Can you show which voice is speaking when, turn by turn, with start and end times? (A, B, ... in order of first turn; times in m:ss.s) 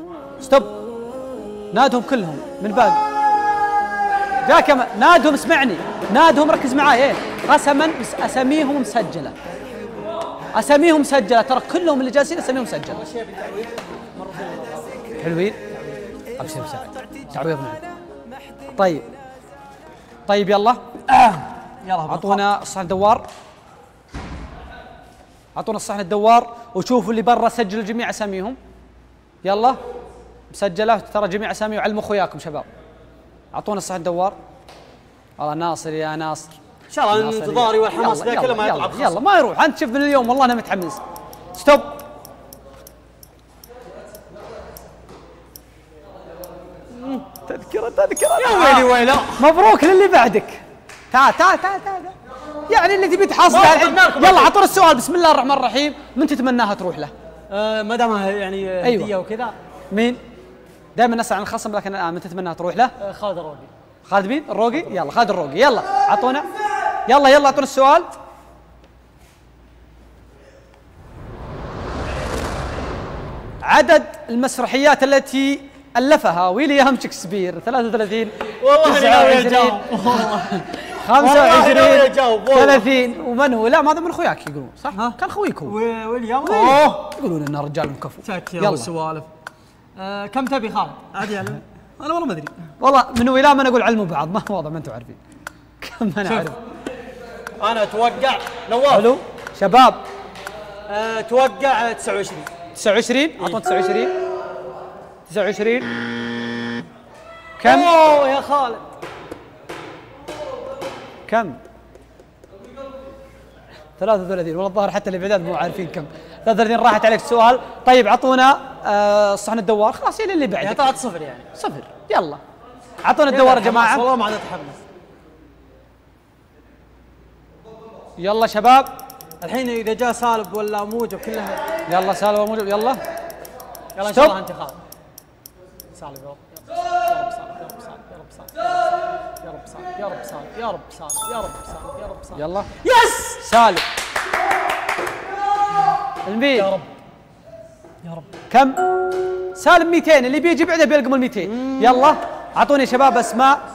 0:00.4-0:00.7 A
0:01.7-0:03.0 A
0:04.4-0:09.4 A
0:10.6-0:13.0 A
0:12.9-0:15.0 B
0:15.2-0:15.6 A
0:16.4-0:17.8 A
0:18.7-0:19.0 A
0:20.3-0:20.8 A
0:21.1-0:22.4 B
0:22.1-0:23.3 A
0:25.6-0:28.6 A
0:29.4-0:29.8 A
0:30.5-0:32.7 A
0:33.5-0:34.4 A
0:35.4-0:36.6 A
0:36.9-0:39.2 B
0:37.1-0:41.0 A
0:41.6-0:42.0 A
0:46.9-0:47.2 B
0:47.4-0:52.2 A
0:48.4-0:49.4 B
0:52.7-0:57.1 A
0:53.5-0:54.6 B
0:57.5-0:59.6 B
0:58.8-0:59.1 A
0:59.9-1:00.2 A
1:01.0-1:02.9 A
1:03.0-1:03.7 B
1:04.1-1:06.5 A
1:07.1-1:08.1 A
1:13.6-1:25.8 A
1:18.6-1:22.9 B
1:24.9-1:27.1 B
1:26.4-1:28.9 A
1:28.2-1:29.3 B
1:30.0-1:32.5 B
1:32.8-1:35.2 A
1:35.8-1:36.6 A
1:36.2-1:36.5 B
1:37.6-1:39.1 B
1:38.9-1:40.0 A
1:40.9-1:42.5 B
1:42.8-1:44.1 A
1:43.4-1:43.6 B
1:45.3-1:45.9 A
1:47.6-1:47.9 A
1:47.6-1:48.8 B
1:51.3-1:51.6 A
1:54.0-2:01.0 A
2:00.6-2:01.5 B
2:01.5-2:02.4 A
2:03.0-2:04.1 A
2:03.3-2:04.8 B
2:08.2-2:08.9 A
2:09.4-2:11.6 B
2:11.9-2:13.0 A
2:14.0-2:14.8 B
2:14.0-2:14.4 A
2:15.9-2:23.4 B
2:22.3-2:22.7 A
2:23.4-2:23.8 A
2:26.2-2:26.7 A
2:26.6-2:26.9 B
2:28.0-2:28.3 B
2:28.5-2:28.9 A
2:29.5-2:33.6 A
2:31.4-2:32.1 B